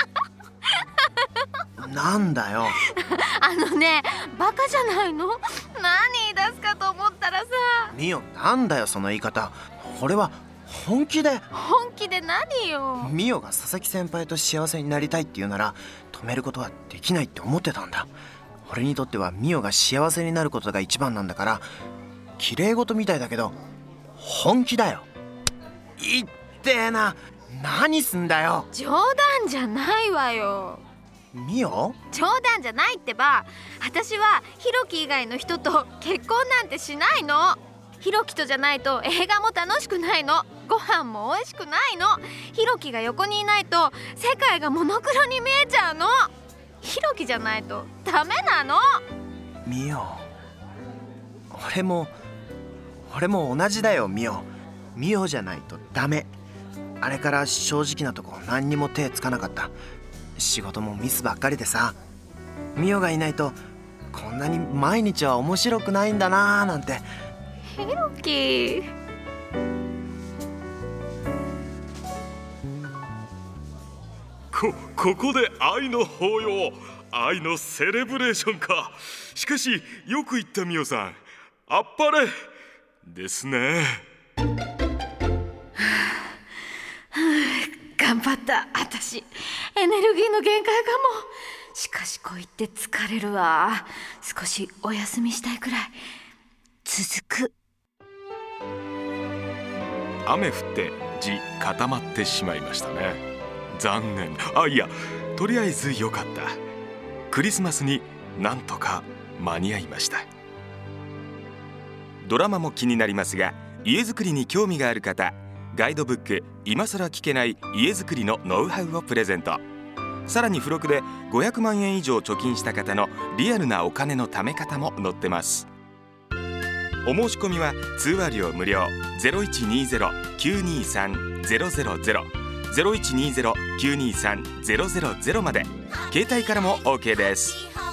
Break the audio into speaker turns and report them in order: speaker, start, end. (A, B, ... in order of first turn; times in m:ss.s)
0:01.8-0:02.8 A
0:02.8-0:07.9 B
0:07.9-0:11.5 A
0:11.5-0:13.1 B
0:13.0-0:18.1 A
0:18.7-0:21.7 A
0:22.4-0:23.6 A
0:24.2-0:25.1 A
0:26.0-0:28.7 A
0:28.7-0:30.8 B
0:31.3-0:32.0 A
0:32.1-0:46.3 B
0:46.8-0:49.0 B
0:49.6-0:50.3 A
0:51.5-0:52.1 A
0:53.1-0:56.3 A
0:57.0-0:59.7 A
1:00.4-1:02.0 A
1:02.8-1:03.6 A
1:04.1-1:07.1 A
1:07.7-1:08.9 B
1:14.5-1:22.4 C
1:23.0-1:24.0 C
1:27.1-1:36.0 B
1:36.8-1:37.5 B
1:40.2-1:46.6 C
1:47.3-1:50.3 C
1:52.2-1:59.6 C
2:00.3-2:05.7 C
2:07.0-2:17.7 C